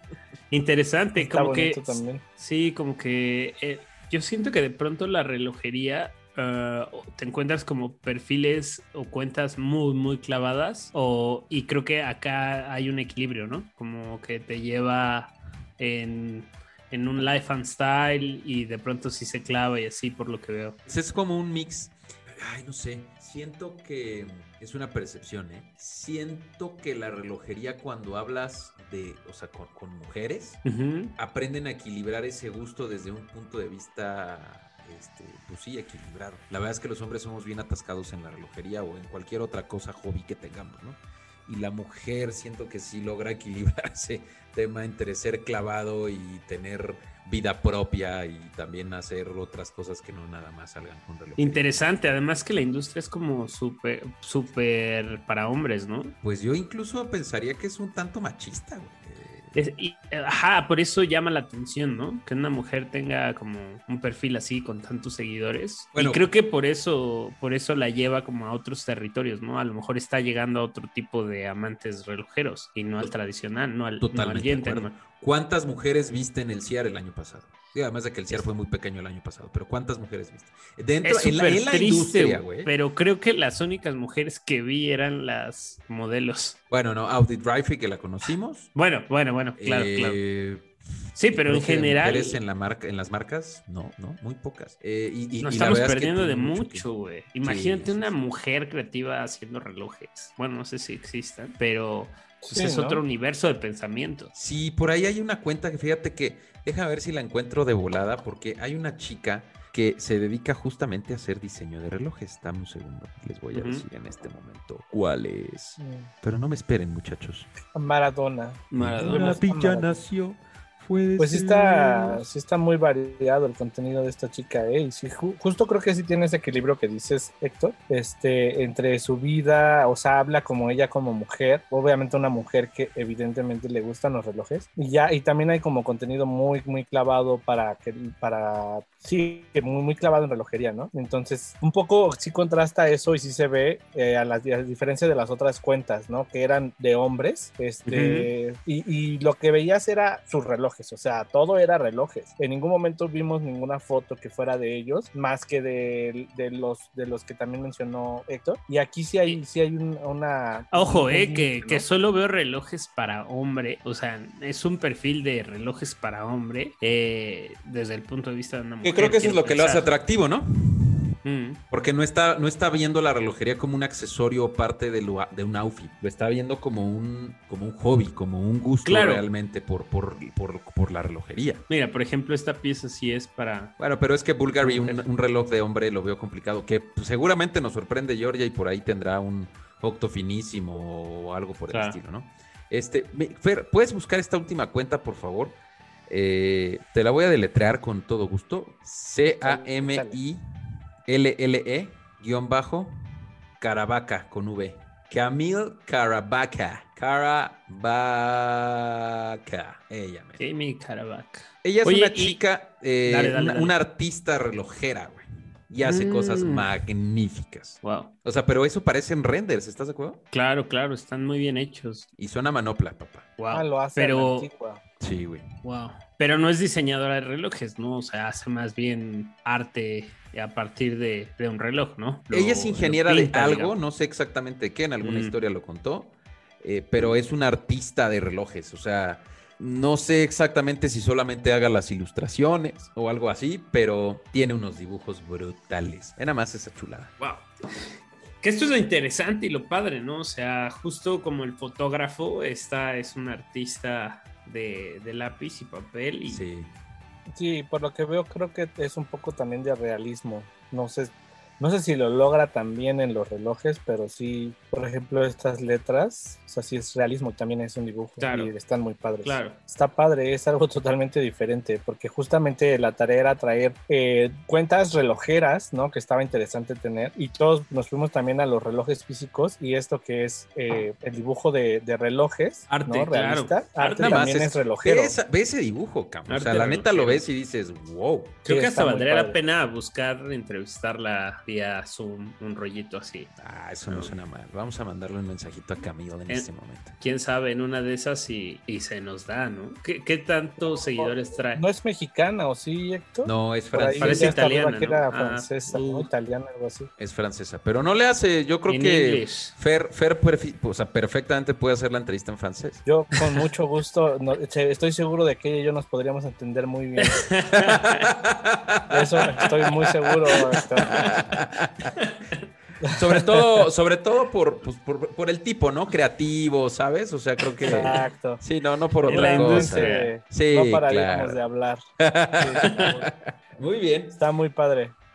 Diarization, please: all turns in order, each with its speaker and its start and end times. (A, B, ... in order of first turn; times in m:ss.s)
0:00.5-0:20.8 A
0:01.2-0:02.2 B
0:20.9-0:30.6 C
0:30.6-0:31.1 A
0:31.2-0:51.6 C
0:51.4-0:56.1 A
0:56.2-0:59.6 C
0:59.6-1:14.9 A
1:06.0-1:06.3 C
1:14.0-1:22.7 C
1:21.0-1:26.6 A
1:26.7-1:28.7 C
1:28.8-1:30.2 A
1:29.6-1:30.7 C
1:31.2-1:32.4 A
1:31.3-1:36.9 C
1:35.4-1:44.3 A
1:37.4-1:38.1 C
1:42.4-1:43.0 B
1:44.3-1:57.5 C
1:53.5-1:53.8 A
1:55.8-1:56.1 B
1:57.7-2:00.0 B
1:58.7-1:59.4 A
1:58.8-2:02.3 C
2:01.2-2:41.8 B
2:27.9-2:28.3 A
2:40.7-2:49.9 A
2:48.8-2:51.2 C
2:51.2-2:51.6 A
2:51.7-3:01.6 C
2:58.8-2:59.2 A
3:01.7-3:03.7 A
3:03.8-3:15.6 C
3:04.6-3:05.0 A
3:11.7-3:12.0 A
3:16.1-3:20.4 C
3:19.3-3:20.2 B
3:21.1-3:22.9 C
3:23.6-3:30.4 C
3:30.4-3:32.4 A
3:31.6-3:40.2 C
3:33.0-3:33.7 A
3:35.8-3:36.7 A
3:37.8-3:38.1 A
3:40.3-3:42.1 A
3:42.2-3:43.3 C
3:43.4-3:44.5 A
3:43.5-3:44.8 B
3:45.0-3:45.5 C
3:45.6-3:53.7 A
3:52.3-4:07.1 C
3:55.0-3:55.4 A
4:07.2-4:07.5 A
4:08.4-4:16.4 A
4:16.3-4:16.7 C
4:17.3-4:45.2 B
4:28.2-4:28.5 A
4:29.2-4:29.6 A
4:42.7-4:44.2 A
4:44.0-4:48.4 C
4:46.3-4:47.2 A
4:48.5-4:53.3 A
4:48.5-4:49.4 B
4:53.4-4:57.0 C
4:53.9-4:54.1 A
4:57.0-5:01.6 A
5:00.6-5:06.9 B
5:03.2-5:04.4 C
5:04.0-5:06.1 A
5:07.0-5:12.8 C
5:08.7-5:09.5 A
5:12.9-5:17.2 B
5:17.0-5:18.1 A
5:17.5-5:19.3 C
5:18.9-5:21.0 B
5:20.5-5:21.2 A
5:20.8-5:22.0 C
5:22.0-5:22.4 A
5:23.0-5:31.4 C
5:27.4-5:28.1 A
5:27.7-5:28.4 B
5:29.0-5:30.1 A
5:29.1-5:31.8 B
5:32.0-5:34.2 C
5:32.4-5:33.1 B
5:32.6-5:32.9 A
5:34.1-5:34.9 B